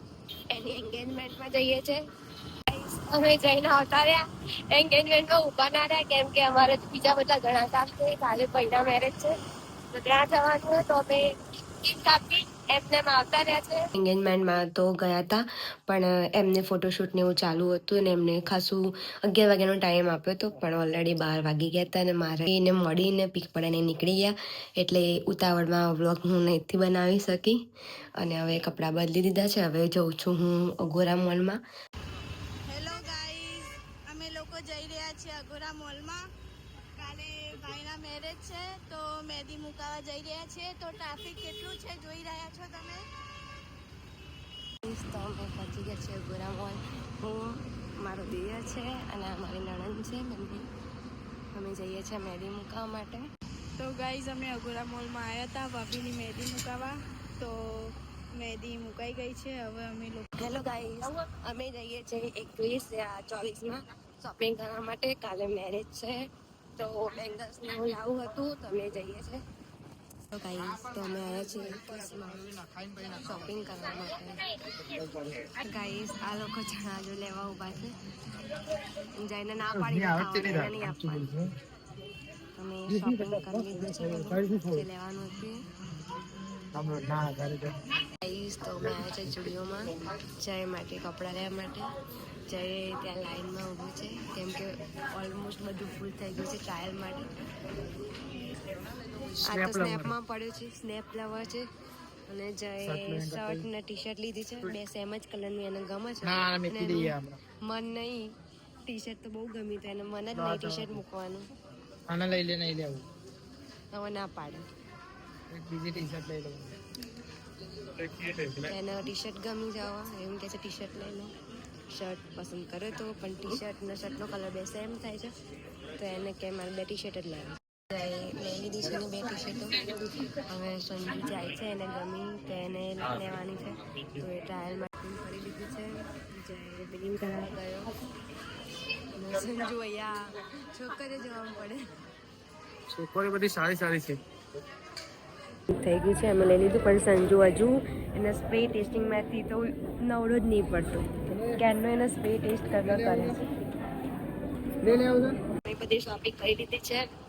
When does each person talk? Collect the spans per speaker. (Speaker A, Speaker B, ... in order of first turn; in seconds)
Speaker A: 0.5-2.0, 2.7-9.3, 9.9-11.2, 11.8-27.6, 28.2-31.6, 44.9-50.7, 51.5-53.3, 60.4-66.2, 66.8-69.4, 70.3-72.5, 73.2-74.4, 75.6-77.9, 79.2-81.3, 82.6-85.6, 88.2-91.9, 92.5-97.3, 99.5-101.7, 102.3-107.1, 107.7-108.2, 108.9-111.5, 113.9-114.7, 118.6-121.3, 121.9-125.3, 126.0-129.9, 130.5-137.9, 139.2-141.8, 145.7-153.4, 155.6-157.1
Speaker B: 32.7-36.2, 37.0-43.0, 53.8-57.6, 58.4-60.3
Speaker C: 72.6-73.1, 79.7-81.5, 82.9-84.8, 86.7-87.8, 99.2-100.2, 102.8-103.7, 106.2-107.4, 110.3-111.0, 112.1-113.0, 115.5-116.8, 118.0-118.7, 142.9-144.2, 154.8-155.4